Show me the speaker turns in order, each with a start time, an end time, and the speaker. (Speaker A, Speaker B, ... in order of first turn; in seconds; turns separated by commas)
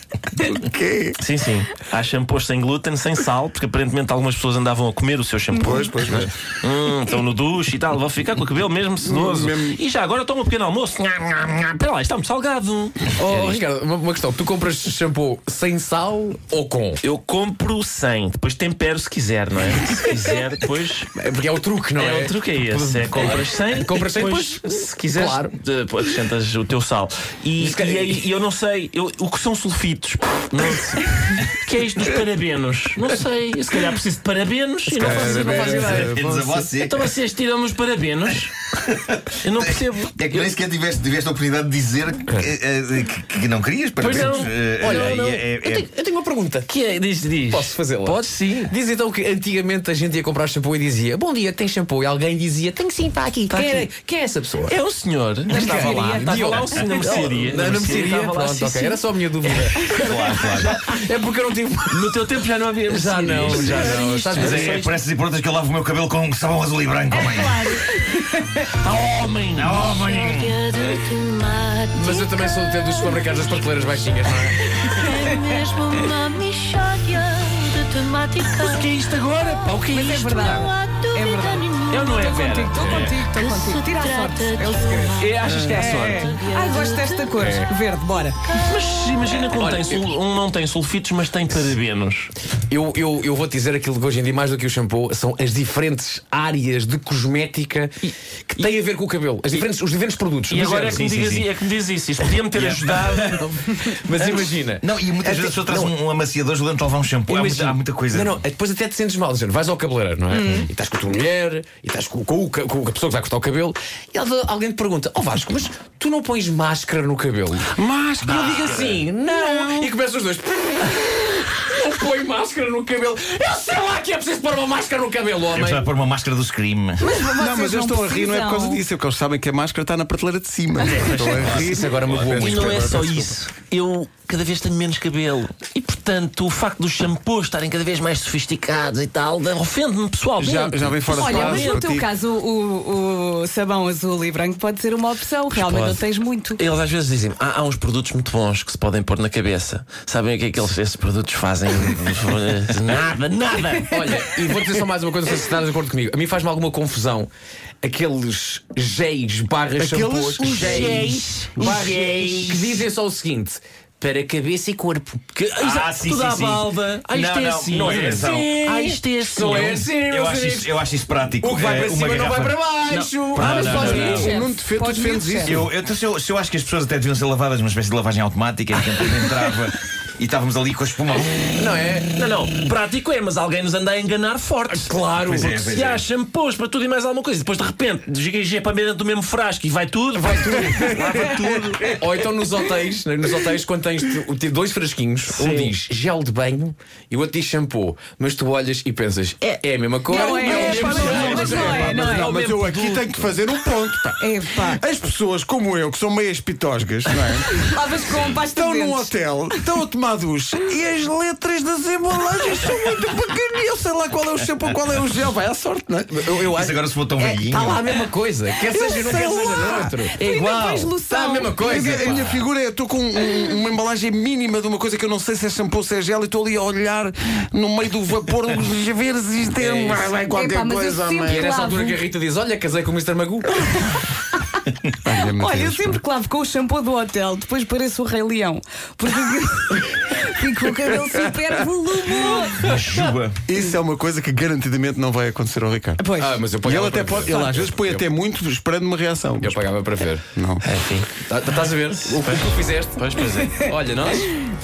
Speaker A: 0.3-1.2, Speaker B: 1.2-13.6, Speaker A: 5.5-6.3, Speaker A: 9.0-9.8, Speaker C: 13.2-17.0, Speaker B: 17.0-21.1, Speaker C: 21.1-25.6, Speaker B: 22.0-36.1, Speaker C: 27.6-28.2, Speaker C: 34.9-36.5, Speaker A: 35.0-36.7, Speaker D: 35.7-37.1, Speaker B: 36.8-38.6, Speaker D: 38.8-45.9, Speaker B: 39.4-40.5, Speaker B: 44.0-45.4, Speaker C: 44.0-46.7, Speaker B: 46.7-48.7, Speaker C: 47.5-54.8, Speaker B: 53.5-53.9, Speaker B: 54.7-59.0, Speaker C: 55.5-62.2, Speaker E: 55.6-56.2, Speaker B: 59.6-60.8, Speaker D: 60.0-60.7, Speaker B: 61.9-65.0, Speaker C: 62.9-64.8, Speaker D: 63.3-67.9, Speaker E: 67.1-68.4, Speaker B: 68.8-70.0, Speaker D: 69.5-70.6, Speaker E: 69.9-73.2, Speaker C: 71.9-75.3, Speaker E: 74.9-78.9, Speaker B: 78.5-80.7, Speaker E: 79.9-82.3, Speaker F: 80.0-88.5, Speaker B: 81.9-83.2, Speaker D: 82.8-83.1, Speaker E: 83.0-88.7, Speaker B: 85.2-86.4, Speaker C: 85.3-86.1, Speaker C: 87.4-87.7, Speaker B: 88.6-92.3, Speaker C: 89.4-90.1, Speaker C: 92.7-101.2, Speaker B: 100.5-103.6, Speaker D: 100.5-101.5, Speaker D: 102.4-103.5, Speaker C: 103.3-106.0, Speaker D: 104.2-108.4, Speaker C: 107.3-126.0, Speaker A: 117.7-118.7, Speaker B: 118.3-119.0, Speaker D: 118.4-118.8, Speaker A: 119.3-119.9, Speaker D: 125.4-127.0, Speaker E: 127.0-127.3, Speaker A: 127.0-133.3, Speaker F: 127.2-128.0, Speaker E: 128.0-128.5, Speaker F: 128.5-128.8, Speaker D: 130.8-132.8, Speaker C: 131.6-133.1, Speaker B: 132.3-141.8, Speaker A: 140.4-142.1, Speaker F: 141.2-143.0, Speaker E: 141.4-141.9, Speaker E: 142.7-143.7, Speaker F: 143.6-146.6, Speaker B: 145.5-146.0, Speaker B: 146.6-154.4, Speaker C: 153.7-157.3, Speaker C: 157.8-165.3, Speaker A: 159.8-161.4, Speaker B: 160.4-162.4, Speaker D: 161.6-162.8, Speaker B: 165.3-169.9, Speaker D: 165.6-168.5, Speaker C: 167.7-174.5, Speaker D: 170.0-172.6, Speaker B: 172.9-174.3, Speaker D: 173.3-174.4, Speaker A: 173.3-175.6, Speaker F: 174.7-175.3, Speaker E: 175.0-175.6, Speaker D: 175.4-181.6, Speaker C: 181.5-182.1, Speaker B: 182.1-192.1, Speaker C: 184.8-185.6, Speaker D: 185.3-186.1, Speaker C: 190.2-191.2, Speaker A: 190.8-191.5, Speaker C: 191.9-202.1, Speaker B: 195.3-195.8, Speaker B: 200.1-203.3, Speaker E: 200.2-201.5, Speaker F: 200.2-200.6, Speaker A: 200.3-207.7, Speaker F: 201.4-202.3, Speaker F: 204.2-204.8, Speaker F: 207.7-209.1, Speaker A: 208.2-216.3, Speaker C: 216.1-222.4, Speaker D: 216.3-218.0, Speaker E: 218.7-221.9, Speaker A: 219.1-219.7, Speaker A: 221.6-231.6, Speaker C: 229.6-230.1, Speaker F: 230.3-231.8, Speaker C: 231.3-233.6, Speaker A: 234.9-236.0, Speaker F: 235.4-239.2, Speaker E: 239.0-240.4, Speaker F: 240.4-242.3, Speaker E: 242.2-242.7, Speaker D: 242.2-243.4, Speaker A: 243.4-246.1, Speaker C: 246.2-248.1, Speaker A: 246.6-249.7, Speaker C: 249.4-250.3, Speaker A: 250.3-250.6, Speaker B: 250.6-251.3, Speaker C: 251.2-254.3, Speaker B: 252.0-253.7